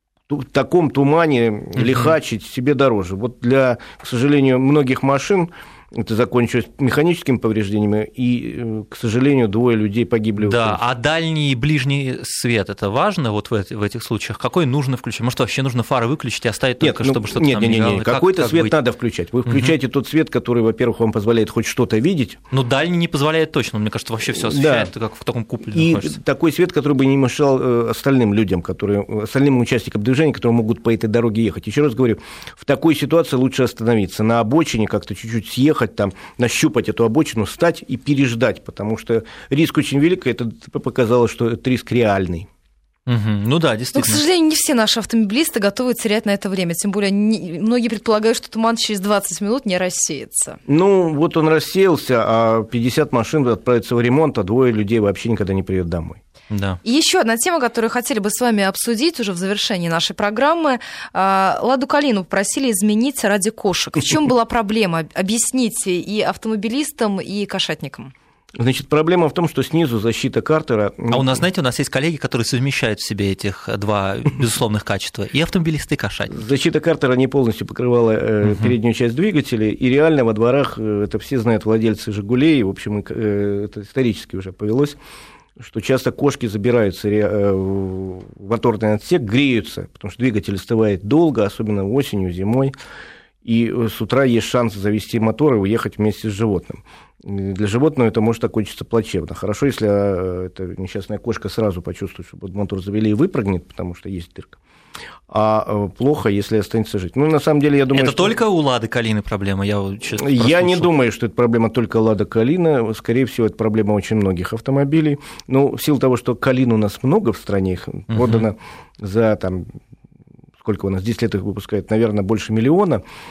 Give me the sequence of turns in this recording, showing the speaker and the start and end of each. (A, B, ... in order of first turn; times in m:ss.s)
0:00.3-0:10.8 A
0:01.8-0:02.1 B
0:10.4-0:18.7 B
0:16.8-0:22.4 A
0:19.4-0:19.7 B
0:22.5-0:26.2 B
0:24.3-0:24.9 A
0:25.7-0:42.5 A
0:43.1-0:44.2 B
0:43.9-0:50.6 C
0:50.7-0:56.2 A
0:56.5-0:56.8 B
0:56.8-1:08.1 C
1:08.6-1:11.4 A
1:11.1-1:16.4 B
1:16.3-1:25.0 A
1:18.4-1:18.7 B
1:25.6-1:32.7 A
1:33.4-1:44.6 A
1:45.3-1:48.4 A
1:47.9-1:50.9 B
1:50.2-1:59.7 A
1:58.1-1:58.5 B
2:00.6-2:03.0 A